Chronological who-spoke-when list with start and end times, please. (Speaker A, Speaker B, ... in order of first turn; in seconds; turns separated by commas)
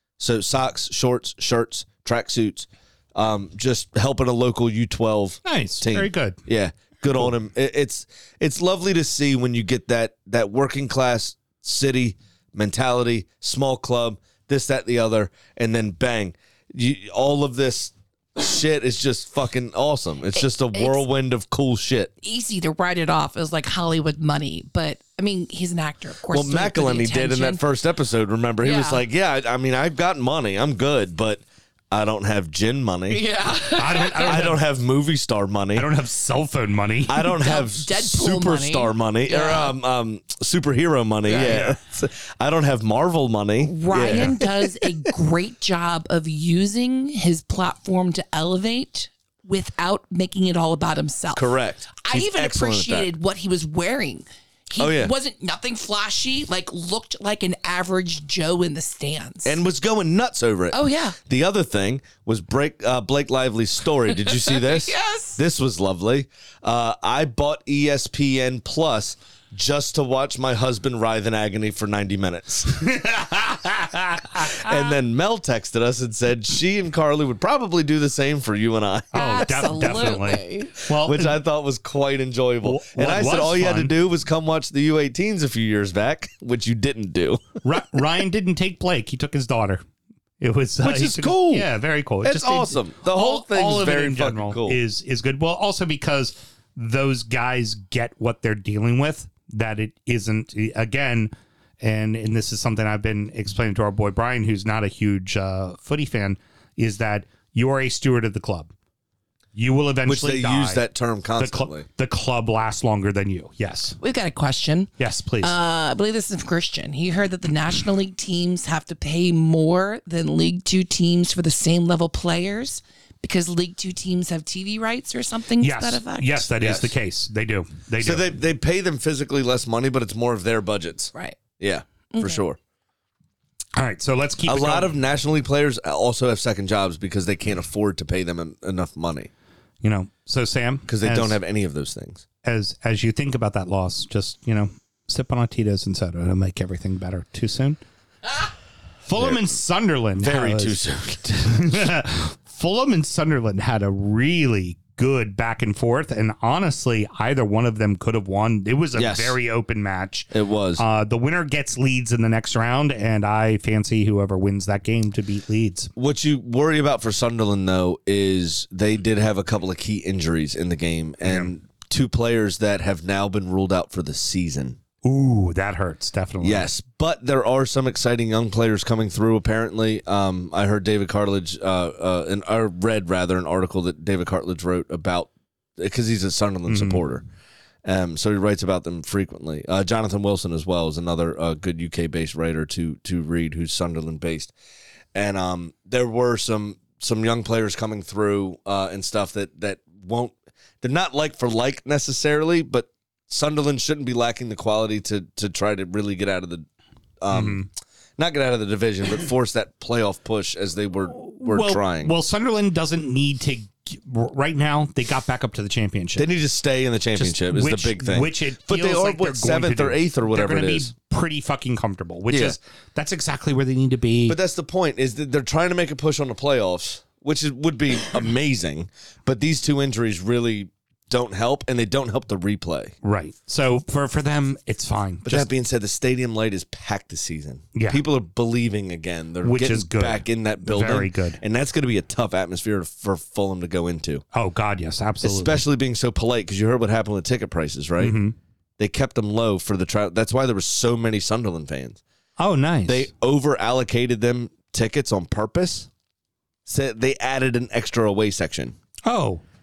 Speaker A: 0.2-22.1, Speaker B: 5.5-6.4, Speaker C: 20.4-21.0, Speaker C: 22.2-27.6, Speaker A: 26.3-33.2, Speaker C: 28.6-29.0, Speaker C: 33.1-34.5, Speaker B: 33.7-34.6, Speaker A: 34.0-35.9, Speaker B: 35.8-37.3, Speaker A: 37.1-44.9, Speaker C: 37.2-39.8, Speaker C: 41.3-41.6, Speaker B: 41.4-41.8, Speaker C: 43.6-59.6, Speaker A: 51.3-53.1, Speaker A: 54.8-55.1, Speaker A: 59.5-72.9, Speaker C: 60.7-61.2, Speaker C: 64.2-65.4, Speaker B: 72.8-74.7, Speaker A: 74.4-80.2, Speaker C: 79.1-80.7, Speaker B: 79.1-81.4, Speaker A: 80.9-87.5, Speaker B: 82.6-84.0, Speaker B: 87.6-89.8, Speaker B: 90.4-108.7, Speaker A: 90.8-91.7, Speaker A: 92.2-94.8, Speaker B: 109.5-110.8, Speaker A: 110.0-111.9, Speaker B: 111.4-114.0, Speaker C: 114.0-114.9, Speaker B: 115.0-115.5, Speaker C: 115.4-126.5, Speaker B: 125.6-128.3, Speaker A: 126.6-126.9, Speaker A: 128.0-132.6, Speaker C: 132.1-132.4, Speaker B: 133.8-134.9, Speaker A: 134.5-139.3, Speaker B: 139.8-141.4, Speaker A: 140.9-142.2, Speaker B: 142.4-147.8, Speaker B: 149.1-150.8, Speaker A: 149.2-149.6, Speaker A: 150.2-151.9, Speaker B: 151.4-165.9, Speaker A: 159.0-159.4, Speaker A: 160.3-160.8, Speaker A: 165.9-174.8, Speaker B: 171.2-171.5, Speaker B: 175.0-176.7, Speaker A: 176.4-187.2, Speaker B: 186.7-187.0, Speaker A: 187.8-194.5, Speaker A: 195.1-206.7, Speaker A: 207.2-207.7, Speaker B: 207.3-207.7, Speaker A: 208.2-212.1, Speaker B: 211.2-216.3, Speaker A: 216.2-220.9, Speaker B: 217.2-224.4, Speaker A: 222.3-222.6, Speaker A: 224.3-232.9, Speaker B: 233.0-235.5, Speaker A: 235.2-244.2, Speaker B: 237.8-238.0, Speaker B: 239.4-241.4, Speaker B: 244.3-245.6, Speaker A: 245.2-248.2, Speaker B: 248.0-248.3, Speaker A: 248.8-252.0, Speaker B: 252.4-253.1, Speaker A: 252.9-255.9, Speaker A: 256.7-258.8, Speaker B: 259.1-259.4